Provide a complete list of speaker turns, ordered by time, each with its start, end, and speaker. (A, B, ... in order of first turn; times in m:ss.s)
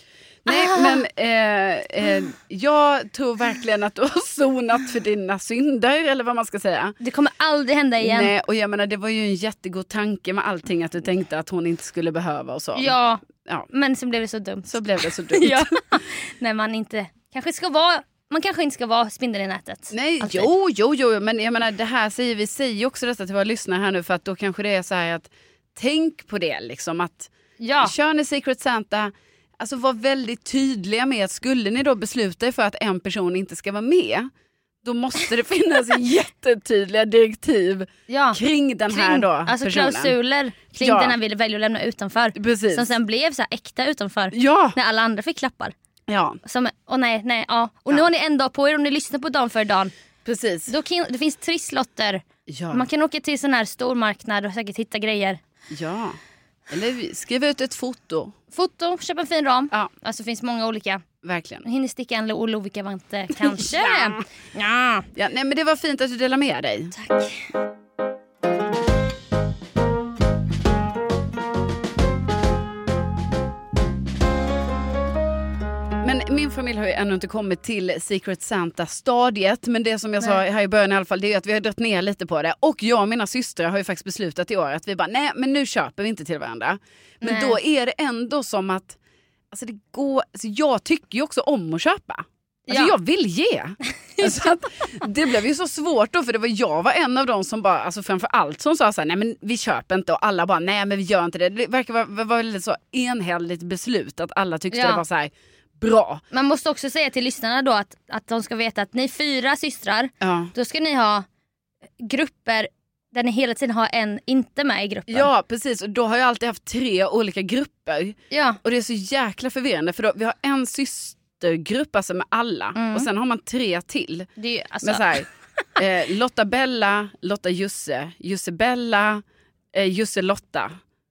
0:00.4-0:07.0 A
0:00.5-0:01.1 B
0:07.0-0:08.3 B
0:08.0-0:13.7 A
0:12.8-0:20.5 B
0:14.7-0:15.7 A
0:19.9-0:34.3 A
0:27.6-0:27.9 B
0:34.8-0:40.1 A
0:38.1-0:45.8 B
0:40.8-0:41.2 A
0:42.4-0:42.9 A
0:44.3-0:44.8 A
0:46.1-0:46.4 A
0:46.4-0:49.9 B
0:50.2-0:50.7 A
0:50.7-0:55.4 B
0:52.5-0:52.9 A
0:55.7-0:56.2 A
0:56.7-0:58.4 A
0:58.5-1:01.0 B
1:01.2-1:01.6 A
1:01.6-1:05.1 B
1:03.4-1:04.2 A
1:05.2-1:07.0 A
1:06.9-1:07.4 B
1:16.0-1:29.0 A
1:27.2-1:27.6 B
1:29.5-1:46.2 A
1:32.7-1:33.0 B
1:33.9-1:35.1 B
1:44.7-1:45.0 B
1:46.3-1:51.3 B
1:50.2-1:50.5 A
1:52.0-1:55.3 B
1:55.1-2:04.3 A
1:58.3-1:58.6 B
2:02.8-2:03.1 B
2:04.4-2:05.6 B
2:04.8-2:10.7 A